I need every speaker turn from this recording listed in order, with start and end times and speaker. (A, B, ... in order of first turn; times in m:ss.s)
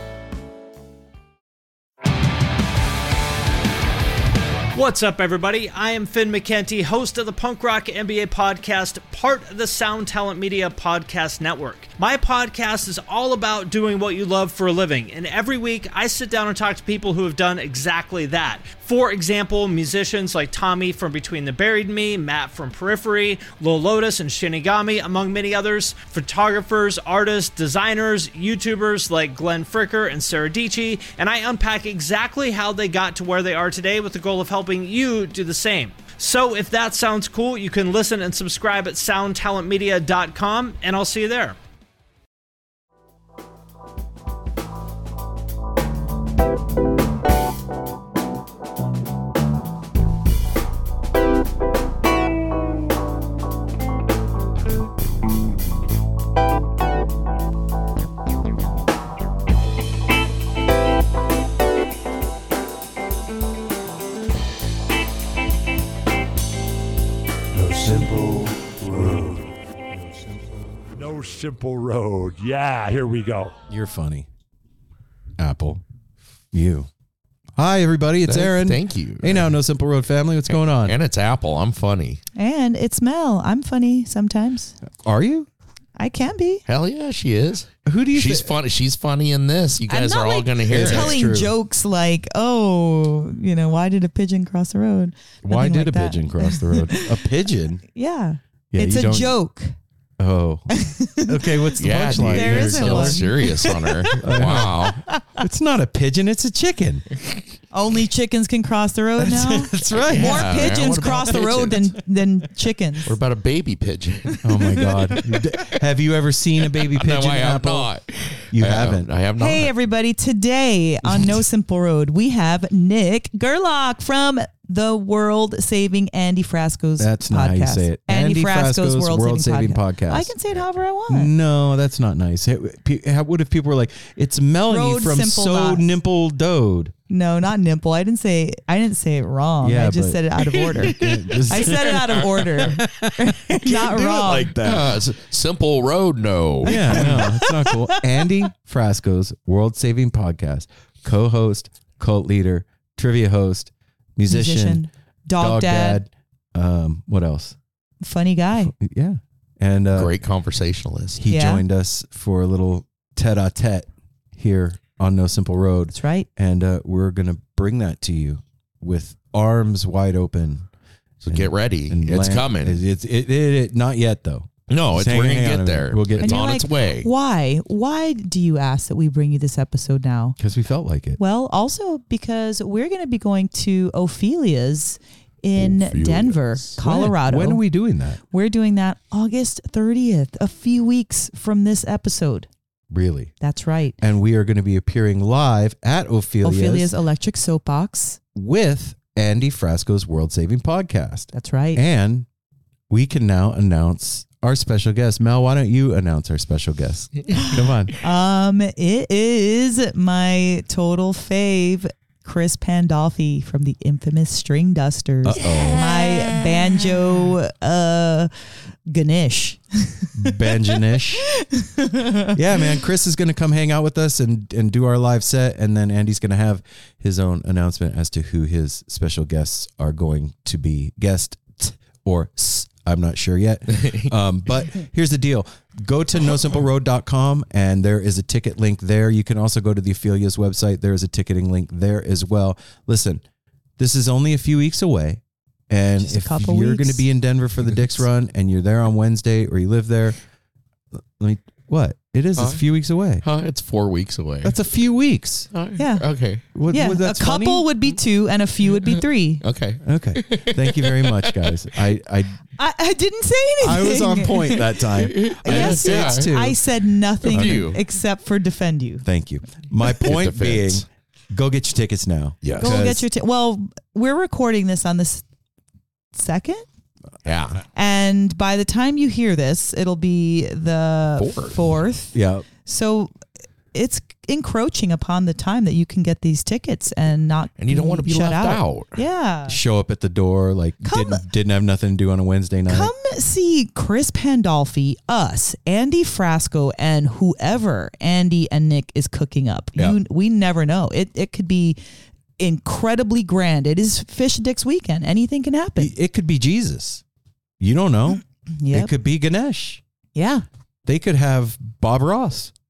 0:04.7-0:41.6 A
1:07.5-1:10.4 B
1:10.9-1:13.6 B
1:13.7-1:14.3 C
1:15.4-1:15.8 C
1:16.5-1:16.9 C
1:17.6-1:21.0 C
1:18.3-1:19.6 D
1:20.5-1:22.2 D
1:22.4-1:24.8 E
1:25.0-1:25.5 C
1:26.0-1:26.6 E
1:26.7-1:31.2 D
1:27.9-1:28.5 C
1:29.9-1:37.2 E
1:30.7-1:31.5 C
1:35.4-1:37.8 C
1:37.9-1:39.7 E
1:38.7-1:39.4 C
1:40.2-1:43.5 C
1:40.7-1:45.2 E
1:41.8-1:45.0 D
1:44.2-1:47.1 C
1:47.7-1:53.1 E
1:49.2-1:50.5 C
1:49.9-1:52.0 D
1:53.1-1:55.6 D
1:54.4-1:57.9 C
1:56.8-1:59.7 D
1:58.5-1:59.1 C
1:59.4-2:11.3 E
2:07.0-2:10.3 C
2:11.1-2:17.0 C
2:14.7-2:15.8 E
2:17.1-2:21.0 E
2:19.6-2:25.0 C
2:21.5-2:24.6 E
2:24.6-2:27.2 D
2:26.6-2:37.6 C
2:26.7-2:28.0 E
2:34.3-2:36.0 E
2:38.0-2:38.7 E
2:38.7-2:40.1 C
2:40.0-2:41.2 D
2:41.2-2:50.7 C
2:41.3-2:41.6 E
2:45.9-2:46.3 E
2:51.2-2:52.8 D
2:51.3-2:56.5 C
2:54.7-2:57.1 D
2:56.2-3:00.4 E
3:00.4-3:01.2 C
3:01.2-3:07.6 E
3:05.6-3:06.8 D
3:06.8-3:08.2 C
3:08.3-3:12.5 E
3:12.9-3:13.3 C
3:13.4-3:14.0 E
3:14.0-3:16.9 C
3:16.4-3:18.2 E
3:18.4-3:22.3 C
3:21.3-3:21.8 E
3:22.9-3:27.9 C
3:28.0-3:38.3 E
3:35.2-3:35.9 C
3:38.9-3:40.8 E
3:40.2-3:41.3 C
3:41.4-3:42.4 E
3:42.3-4:03.2 C
3:53.8-3:54.0 D
4:03.8-4:10.2 C
4:06.0-4:07.0 E
4:11.2-4:13.2 C
4:12.4-4:12.6 D
4:13.2-4:14.6 D
4:14.4-4:15.5 C
4:15.5-4:16.4 D
4:15.8-4:16.1 E
4:16.5-4:17.7 C
4:16.7-4:19.4 E
4:18.7-4:21.6 D
4:19.8-4:22.4 C
4:22.6-4:24.7 E
4:23.6-4:26.6 C
4:25.0-4:26.3 D
4:25.2-4:29.0 E
4:27.2-4:27.8 D
4:27.3-4:27.7 C
4:29.0-4:33.0 C
4:30.0-4:30.8 D
4:32.4-4:32.8 D
4:32.6-4:35.2 E
4:36.1-4:36.7 E
4:37.2-4:37.6 D
4:37.7-4:43.1 E
4:41.2-4:41.6 D
4:42.1-4:42.5 C
4:43.7-4:49.6 E
4:47.6-4:49.0 D
4:49.5-4:52.9 C
4:50.8-4:51.2 E
4:52.7-5:01.8 E
5:02.4-5:05.9 E
5:05.8-5:07.0 C
5:07.6-5:09.8 C
5:08.6-5:08.9 E
5:10.2-5:10.4 E
5:10.9-5:12.5 C